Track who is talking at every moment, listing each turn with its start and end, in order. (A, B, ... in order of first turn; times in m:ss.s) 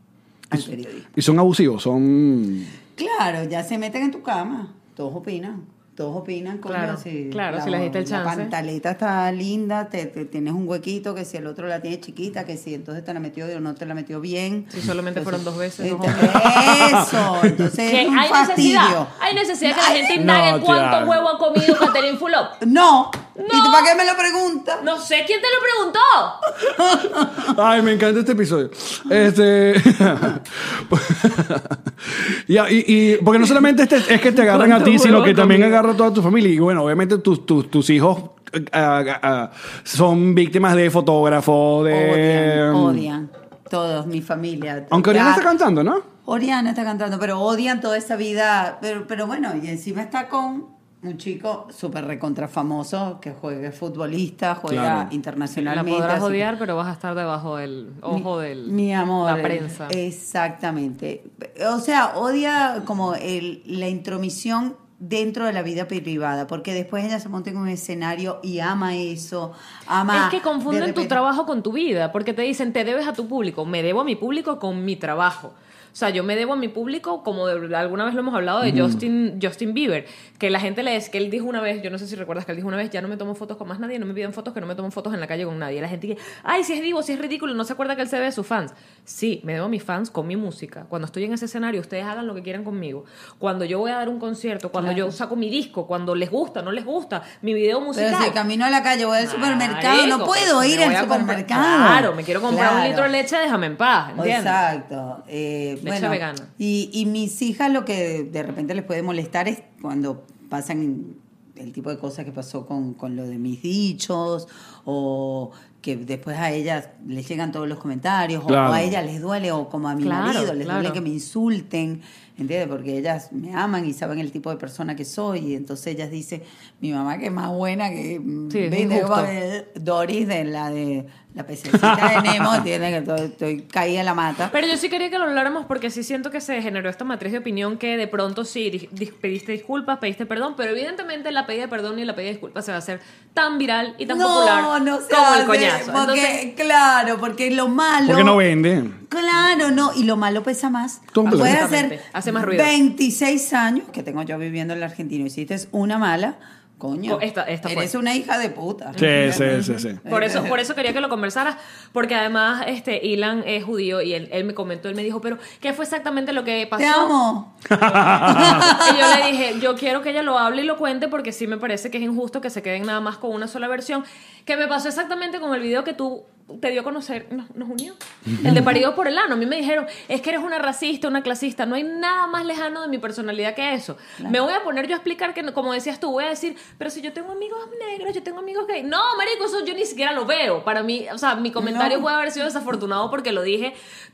0:00.5-0:01.1 A
0:00.5-0:02.7 B
0:03.0-0:19.1 A
0:06.7-0:08.5 C
0:14.7-0:16.4 C
0:16.0-0:17.7 B
0:17.8-0:22.6 C
0:19.6-0:20.2 A
0:20.2-0:21.7 B
0:22.6-0:24.9 A
0:23.4-0:23.9 C
0:24.8-0:26.4 C
0:26.6-0:27.5 A
0:27.2-0:43.1 B
0:34.2-0:35.8 C
0:41.9-0:45.5 A
0:44.9-0:46.0 B
0:46.2-0:56.5 A
0:54.7-0:55.1 B
0:55.5-1:00.0 C
0:58.1-1:11.2 A
1:10.1-1:38.4 C
1:18.6-1:19.0 B
1:34.8-1:35.2 A
1:37.9-1:43.1 A
1:39.2-1:44.6 C
1:44.2-2:14.6 A
1:45.8-1:46.5 C
1:58.5-1:59.0 B
2:00.0-2:01.0 C
2:08.5-2:09.3 C
2:11.7-2:12.7 B
2:14.5-2:26.4 C
2:24.0-2:28.4 A
2:28.0-2:29.0 B
2:29.1-2:40.6 A
2:31.1-2:31.7 B
2:31.3-2:32.7 C
2:37.0-2:37.9 C
2:38.9-2:47.1 C
2:39.0-2:40.0 B
2:46.8-2:49.2 A
2:47.7-2:48.7 B
2:48.1-3:13.8 C
2:58.4-2:58.8 A
3:11.6-3:12.1 A